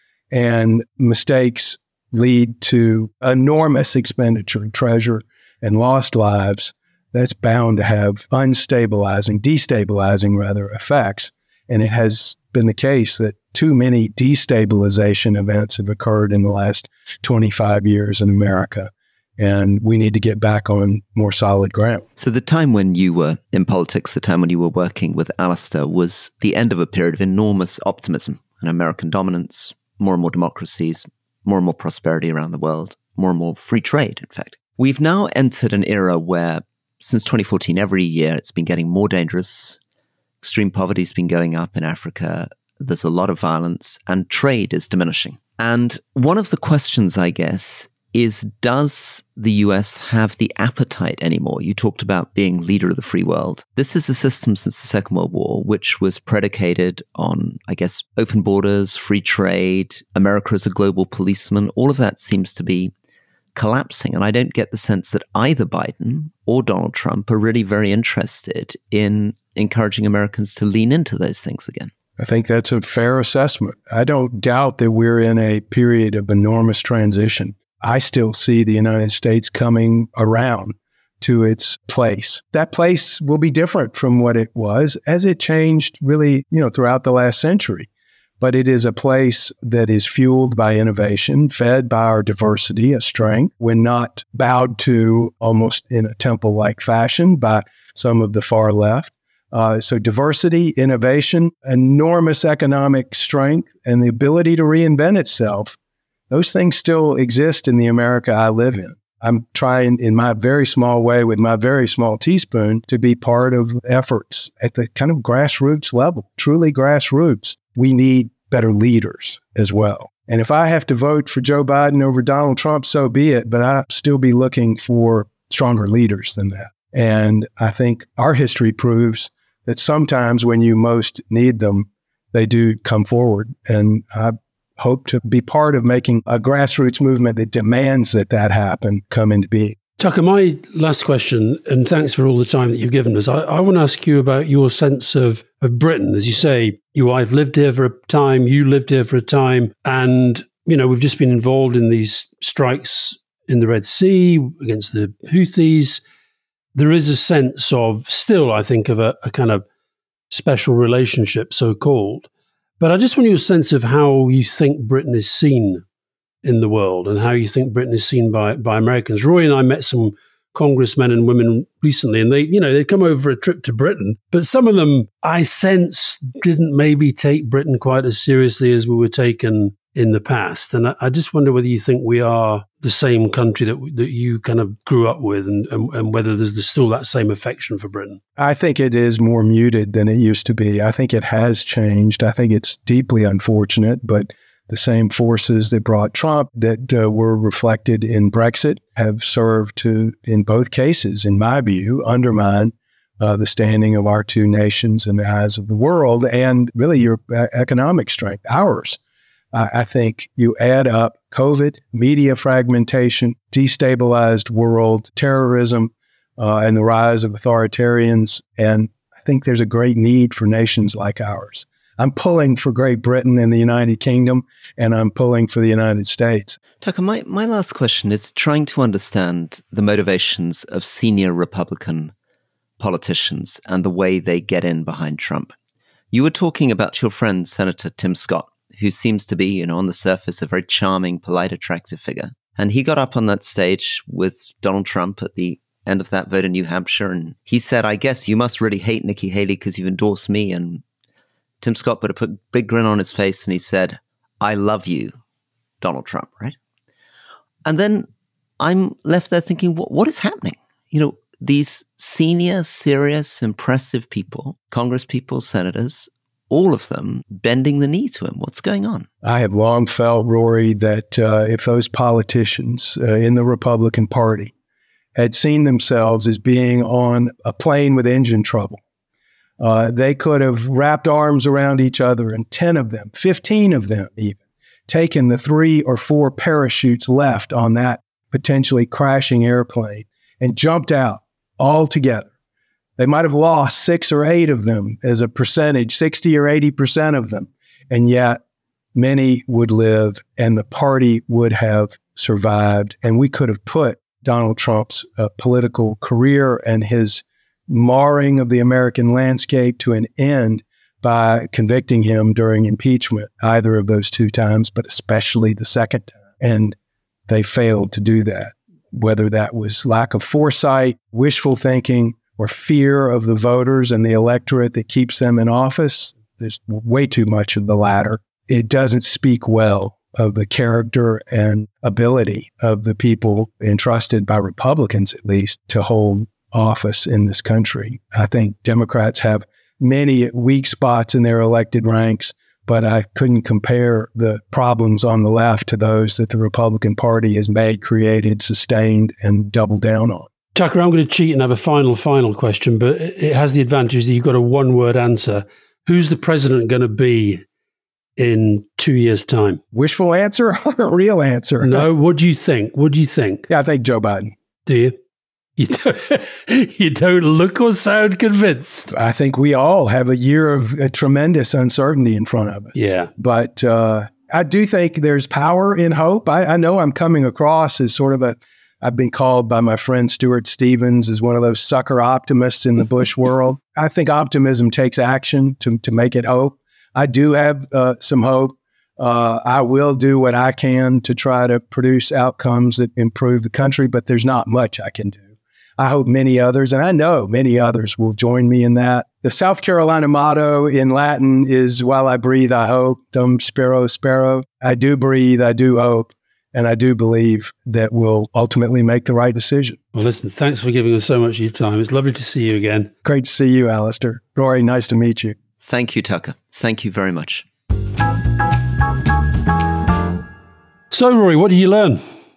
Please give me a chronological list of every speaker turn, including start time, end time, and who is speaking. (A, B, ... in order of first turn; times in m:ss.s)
0:00.3-0:22.0 A
0:22.2-0:39.8 B
0:40.4-1:02.9 B
1:03.6-1:11.9 B
1:12.2-1:27.9 A
1:28.4-1:45.8 A
1:46.3-2:19.8 A
2:20.0-2:36.0 C
2:36.8-2:39.6 C
2:40.3-2:42.3 C
2:42.8-2:45.8 C
2:46.4-3:08.2 C
3:08.4-3:29.0 A
3:29.5-3:46.6 A
3:46.8-3:52.1 B
3:52.8-3:55.5 B
3:56.1-4:10.8 B
4:11.6-4:15.2 B
4:15.8-4:16.6 B
4:17.6-4:18.1 B
4:18.6-4:29.1 B
4:29.2-4:34.5 A
4:35.2-4:38.8 A
4:39.6-4:52.3 A
4:53.0-4:58.4 A
4:59.0-5:16.8 A
5:17.3-5:50.3 A
5:50.6-5:57.4 C
5:58.2-5:59.6 C
5:59.7-6:01.9 A
6:01.6-6:03.5 C
6:03.5-6:04.4 A
6:04.7-6:05.0 C
6:05.6-6:08.9 C
6:08.9-6:35.2 A
6:12.7-6:13.1 C
6:35.8-6:49.8 A
6:49.9-6:52.9 C
6:53.0-6:55.4 A
6:55.6-6:57.5 B
7:00.9-7:02.0 C